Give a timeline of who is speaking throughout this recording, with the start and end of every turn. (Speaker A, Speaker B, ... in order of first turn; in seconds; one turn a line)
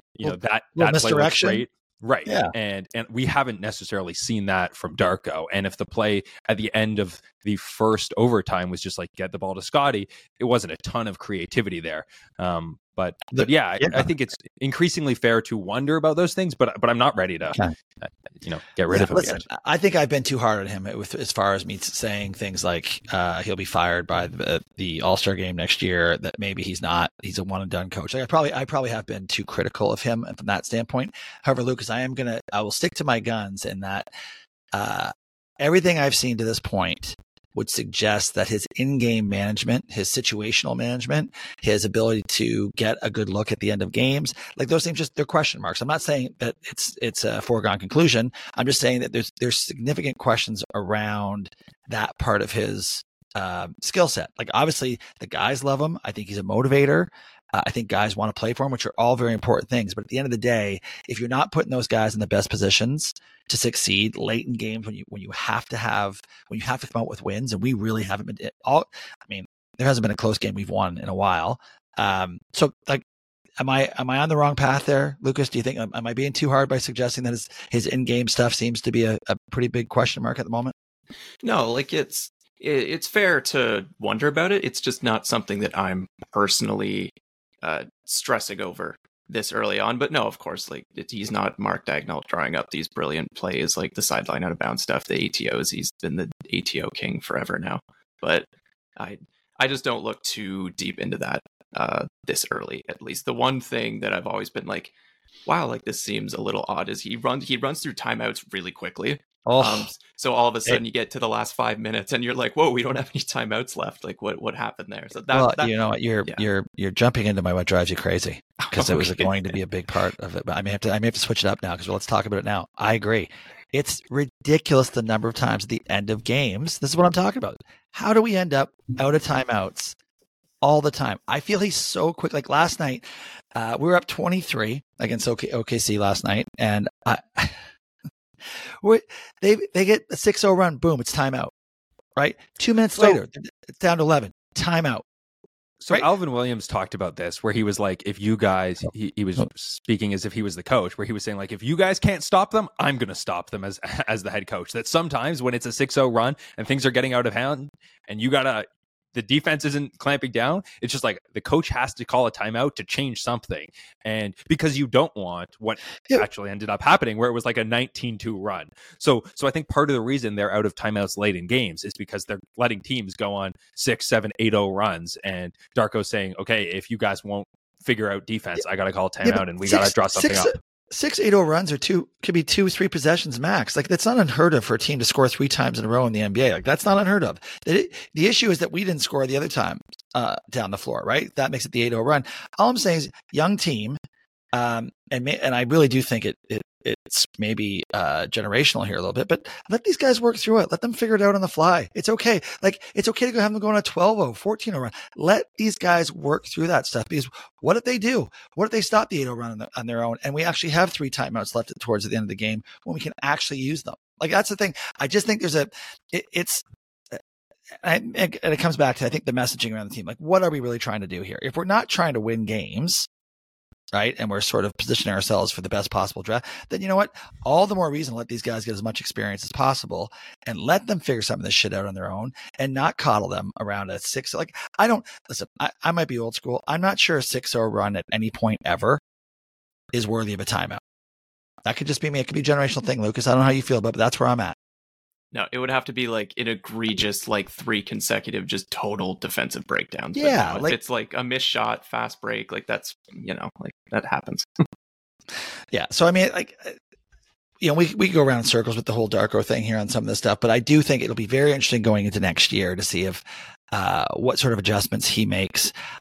Speaker A: 0.1-19.4
Speaker B: 0.2-1.6
Speaker B: 2.2-2.5
Speaker B: 13.3-14.1
Speaker B: 18.9-34.1
Speaker B: 34.7-73.0
Speaker B: 73.6-80.7
Speaker C: 81.4-98.5
Speaker C: 99.0-104.9
Speaker C: 105.5-116.4
Speaker B: 109.5-109.9
Speaker B: 115.3-129.9
Speaker C: 118.6-119.5
Speaker B: 130.6-137.6
Speaker B: 138.4-141.5
Speaker B: 142.2-145.0
Speaker A: 145.8-180.5
Speaker B: 179.2-194.0
Speaker B: 194.5-217.2
Speaker B: 217.8-223.1
Speaker B: 223.9-239.0
Speaker B: 239.9-240.8
Speaker B: 241.7-244.5
Speaker C: 245.3-254.7
Speaker B: 250.1-250.7
Speaker B: 255.7-256.8
Speaker B: 257.6-265.7